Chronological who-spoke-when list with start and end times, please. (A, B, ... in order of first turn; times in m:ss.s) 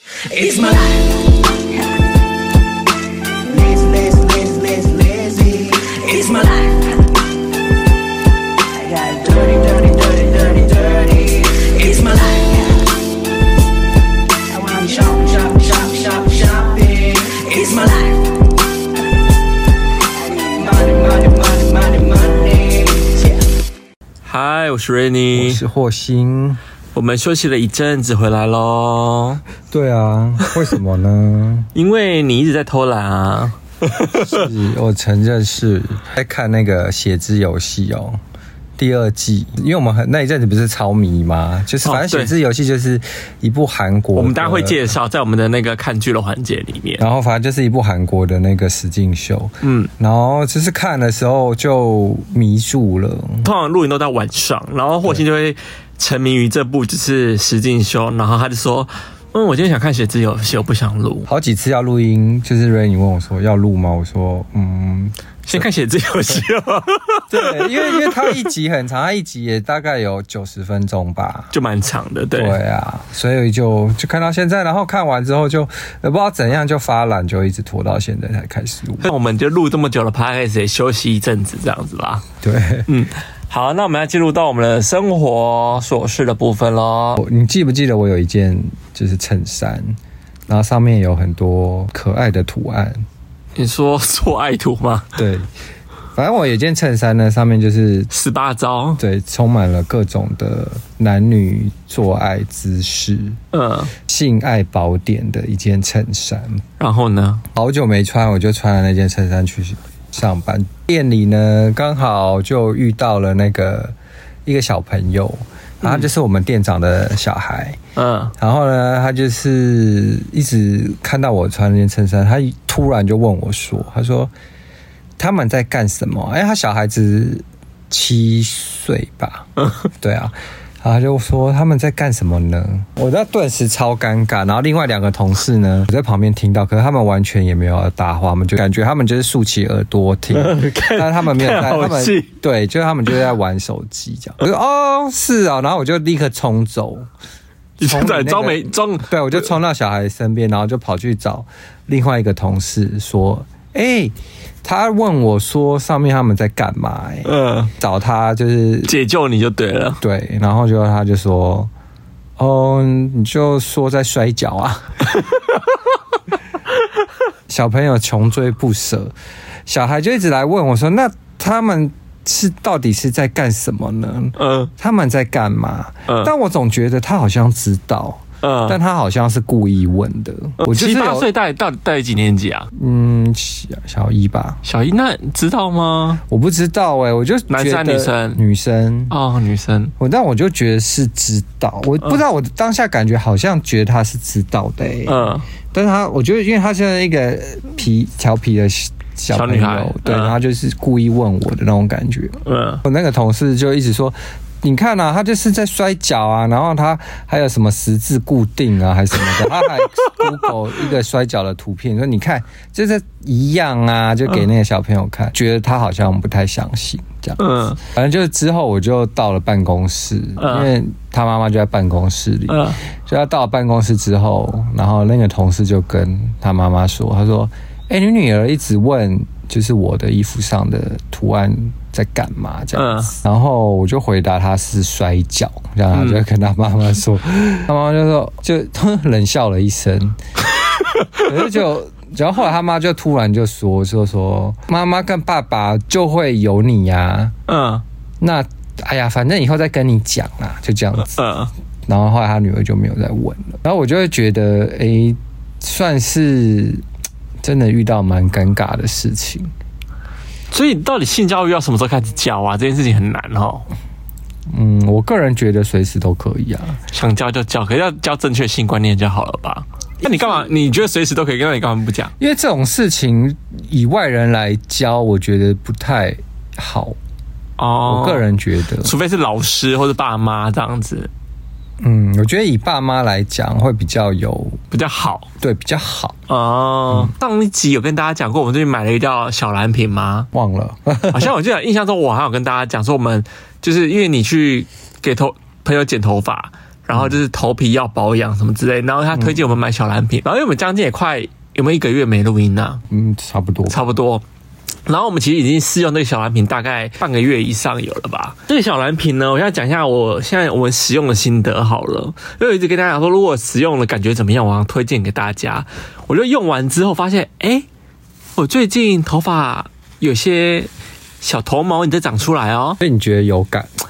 0:00.2-0:01.6 A
0:03.5-0:07.0 A
0:08.7-0:13.0 A
0:14.5-0:18.3 A
0:20.2-0:23.4 A
0:24.2-0:25.6 B
0:25.3-0:26.6 C
0:26.9-0:29.4 B
0:29.7-0:31.7 C
0:31.8-0:34.5 B
0:34.1-0:38.2 C
0:38.8-0:44.8 C
0:41.8-0:42.3 B
0:44.2-0:47.0 B
0:47.0-0:53.5 C
0:49.6-0:49.9 B
0:53.4-1:01.3 B
1:01.3-1:05.6 C
1:05.5-1:08.4 B
1:07.3-1:11.5 C
1:11.5-1:12.6 B
1:12.3-1:19.1 C
1:19.0-1:22.3 B
1:22.4-1:22.9 C
1:22.9-1:27.2 B
1:27.2-1:30.0 C
1:30.5-1:33.0 C
1:33.6-1:35.1 B
1:35.2-1:35.5 C
1:36.1-1:38.1 C
1:38.1-1:39.0 B
1:39.0-1:43.4 C
1:43.5-1:43.9 B
1:44.1-1:46.6 C
1:46.8-1:47.4 B
1:47.5-1:57.8 C
1:58.0-1:58.3 B
1:58.4-2:04.3 C
2:05.2-2:27.1 C
2:20.3-2:22.3 B
2:27.8-2:29.5 B
2:27.8-2:38.9 C
2:37.2-2:37.7 B
2:38.9-2:40.0 B
2:40.0-2:41.7 C
2:42.4-2:45.1 C
2:47.5-2:49.1 C
2:49.7-3:01.3 C
2:54.4-2:54.7 B
2:56.1-2:56.3 B
2:58.4-2:58.8 B
3:00.6-3:02.7 B
3:02.7-3:04.6 C
3:04.6-3:06.2 B
3:06.3-3:09.2 C
3:07.5-3:08.4 B
3:09.1-3:09.9 B
3:10.0-4:00.2 C
3:15.0-3:15.5 B
3:19.3-3:20.4 B
3:22.4-3:22.8 B
3:29.2-3:30.5 B
3:37.4-3:37.8 B
3:40.4-3:40.7 B
3:42.5-3:42.8 B
3:52.7-3:53.1 B
3:55.9-3:56.2 B
4:01.0-4:01.5 B
4:01.2-4:07.3 C
4:07.5-4:07.8 B
4:08.2-4:11.1 C
4:11.1-4:11.5 B
4:11.8-4:16.8 C
4:17.4-4:19.5 C
4:20.5-4:23.7 B
4:24.5-4:26.8 C
4:26.9-4:32.1 B
4:32.2-4:37.0 C
4:37.6-4:38.3 B
4:37.8-4:38.9 C
4:38.8-4:41.1 B
4:41.8-4:44.6 C
4:44.7-4:45.3 B
4:45.4-4:46.2 C
4:46.3-4:50.3 B
4:50.3-4:51.3 C
4:51.1-5:02.8 B
5:02.9-5:03.8 C
5:03.7-5:04.2 B
5:04.8-5:17.7 B
5:18.4-5:20.7 B
5:21.2-5:22.8 B
5:22.8-5:23.7 C